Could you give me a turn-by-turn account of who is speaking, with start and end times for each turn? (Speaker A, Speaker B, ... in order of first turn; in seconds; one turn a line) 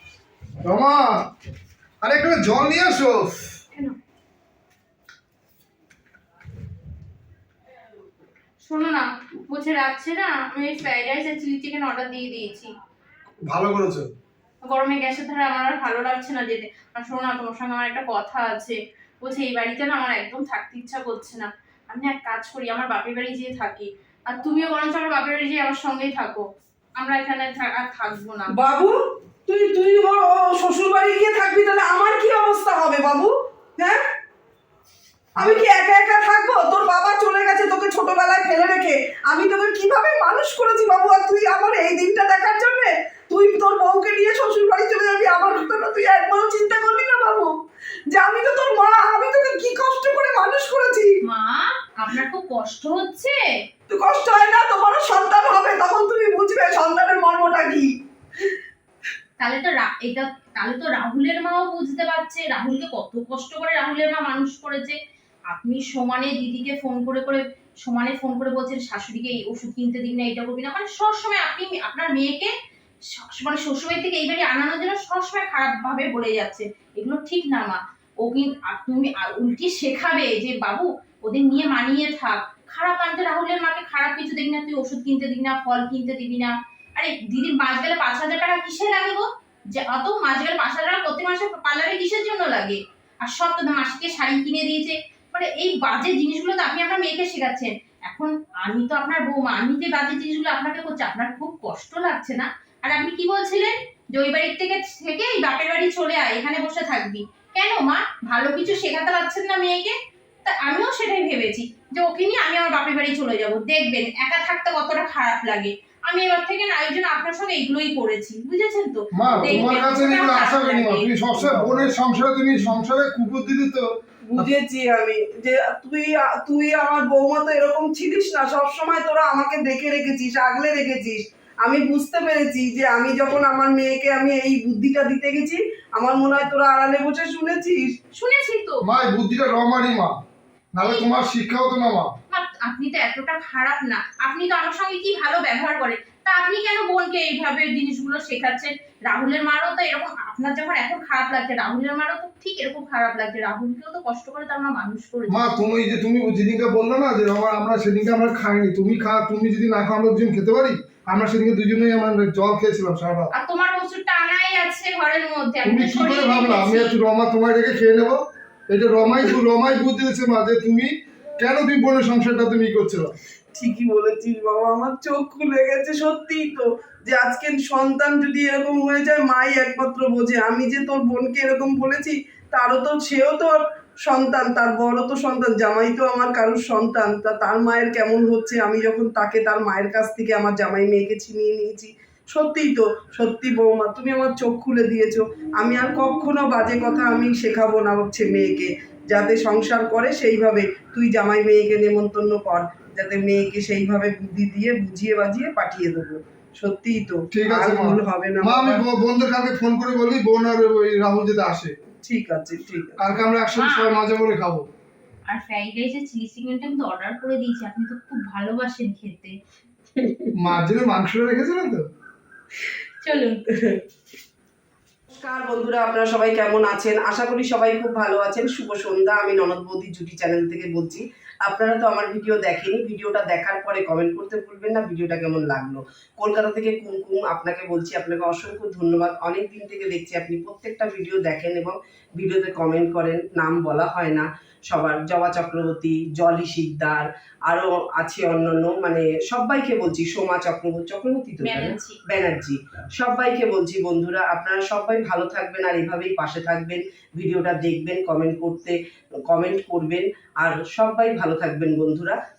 Speaker A: 0.6-1.3
Speaker A: 2.0-3.5
Speaker B: 8.6-12.7
Speaker A: 13.5-14.1
Speaker B: 14.7-26.4
Speaker B: 27.0-28.5
Speaker C: 28.5-34.0
Speaker C: 35.4-47.5
Speaker C: 48.1-51.2
Speaker B: 51.2-53.4
Speaker C: 53.9-58.4
Speaker B: 59.4-65.0
Speaker B: 65.5-72.5
Speaker B: 73.1-121.2
Speaker A: 119.1-124.5
Speaker C: 121.4-121.9
Speaker C: 124.2-137.9
Speaker B: 138.1-138.8
Speaker A: 138.8-140.2
Speaker A: 140.7-142.1
Speaker B: 142.3-155.4
Speaker A: 155.3-163.3
Speaker B: 163.3-166.9
Speaker A: 165.6-173.1
Speaker C: 173.5-208.8
Speaker A: 207.3-211.7
Speaker C: 212.0-213.1
Speaker A: 213.0-214.7
Speaker B: 213.6-213.9
Speaker B: 215.3-219.3
Speaker C: 219.9-220.3
Speaker A: 220.4-221.9
Speaker B: 223.0-223.4
Speaker C: 223.5-223.8
Speaker C: 225.2-258.8
Speaker B: 251.4-252.0
Speaker C: 259.3-262.2